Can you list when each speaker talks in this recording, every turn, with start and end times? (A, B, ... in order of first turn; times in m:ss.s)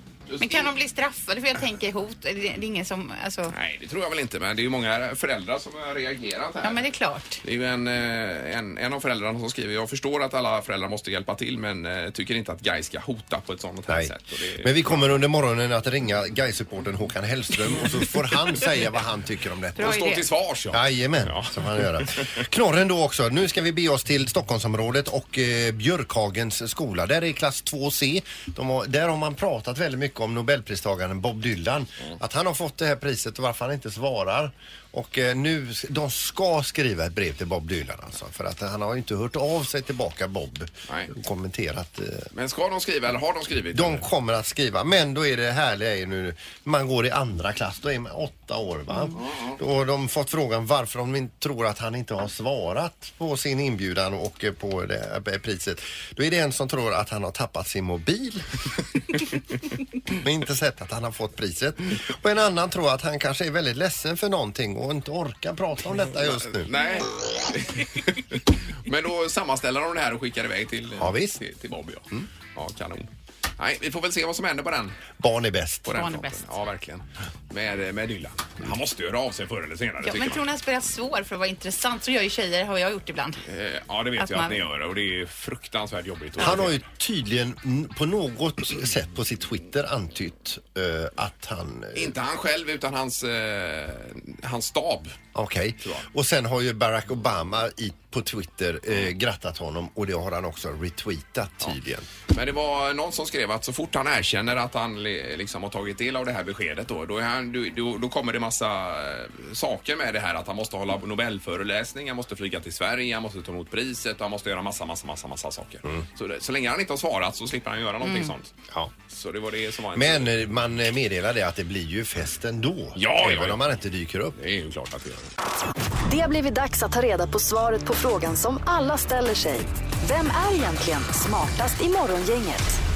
0:00.3-0:00.7 A
0:00.4-0:03.5 B
0:03.5-0:06.8 A
0:06.6-0:07.4 B
0:07.4-0:15.2 A
0:13.9-0:20.0 C
0:19.8-0:20.2 B
0:19.8-0:22.5 A
0:20.7-0:42.3 C
0:42.3-0:44.1 A
0:43.7-0:58.5 C
0:49.2-0:49.6 A
1:00.2-1:06.7 C
1:06.2-1:15.0 A
1:11.0-1:11.4 C
1:15.2-1:16.0 C
1:15.9-1:20.4 A
1:15.9-1:16.5 B
1:20.0-1:23.4 B
1:23.4-1:26.8 A
1:24.2-1:24.6 B
1:26.4-1:32.2 C
1:32.0-1:35.2 A
1:35.3-1:42.1 C
1:42.3-1:58.5 A
1:58.0-1:58.3 B
1:59.1-2:00.3 A
2:00.0-2:04.4 C
2:03.0-2:03.6 A
2:04.4-2:05.3 A
2:06.1-2:12.8 D